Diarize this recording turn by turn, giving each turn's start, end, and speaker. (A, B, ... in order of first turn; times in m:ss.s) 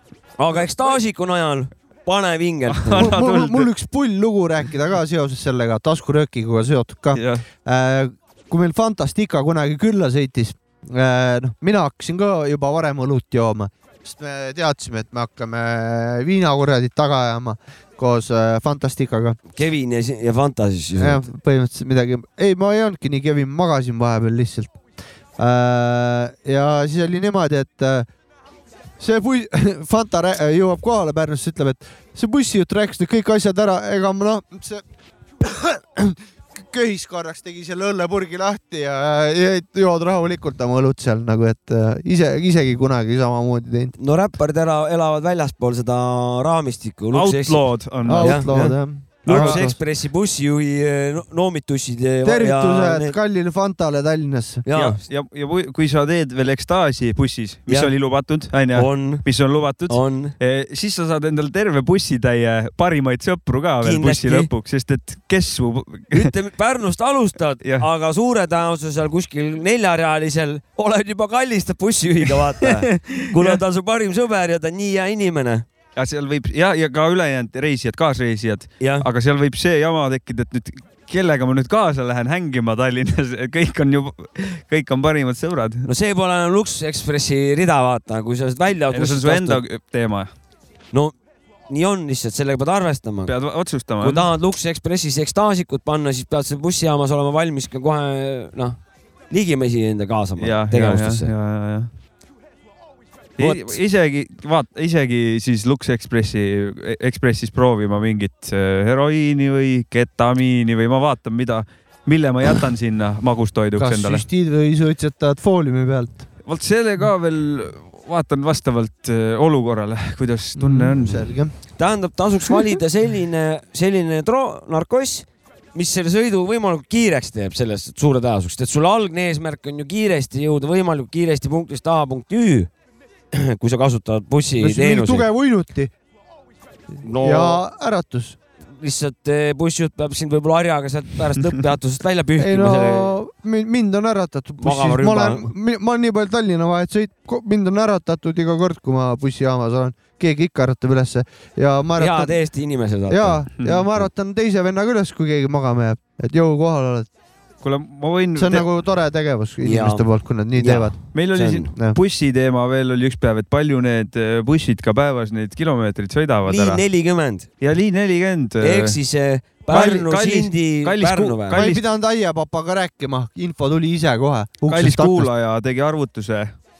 0:00.4-0:03.1 A
0:02.8-0:03.7 B
0:03.0-0:19.4 C
0:07.1-0:07.4 B
0:19.5-0:21.2 A
0:21.0-0:24.8 C
0:25.4-0:28.1 C
0:29.0-0:34.8 C
0:35.4-0:43.9 C
0:44.0-0:47.6 A
0:47.1-0:48.7 B
0:48.0-0:49.8 C
0:48.2-0:53.2 A
0:49.2-0:49.7 B
0:52.2-0:54.6 C
0:54.6-0:55.0 A
0:54.7-1:06.3 B
0:58.7-0:59.2 A
0:59.9-1:00.3 A
1:03.8-1:04.5 A
1:06.1-1:15.6 A
1:12.7-1:13.6 B
1:16.0-1:25.8 B
1:18.8-1:19.1 A
1:25.8-1:29.6 A
1:28.9-1:30.3 B
1:31.7-1:33.3 A
1:33.2-1:34.3 B
1:34.0-1:38.8 A
1:39.3-1:41.3 A
1:40.4-1:41.9 B
1:43.4-1:54.2 B
1:43.4-1:43.8 A
1:53.8-1:56.2 C
1:56.4-2:01.3 B
2:00.6-2:01.5 C
2:01.8-2:12.7 A
2:13.3-2:15.3 A
2:14.6-2:15.9 C
2:17.0-2:17.6 A
2:17.0-2:18.4 C
2:18.8-2:23.2 A
2:22.4-2:32.4 C
2:24.6-2:25.5 A
2:32.0-2:33.4 A
2:33.1-2:37.1 C
2:33.6-2:33.8 B
2:37.6-2:38.6 B
2:38.3-2:41.0 C
2:39.6-2:41.7 A
2:41.1-2:46.8 B
2:46.4-2:47.5 A
2:47.6-2:49.0 B
2:48.6-2:51.6 A
2:49.7-2:51.8 B
2:51.5-2:55.3 C
2:54.6-2:56.5 B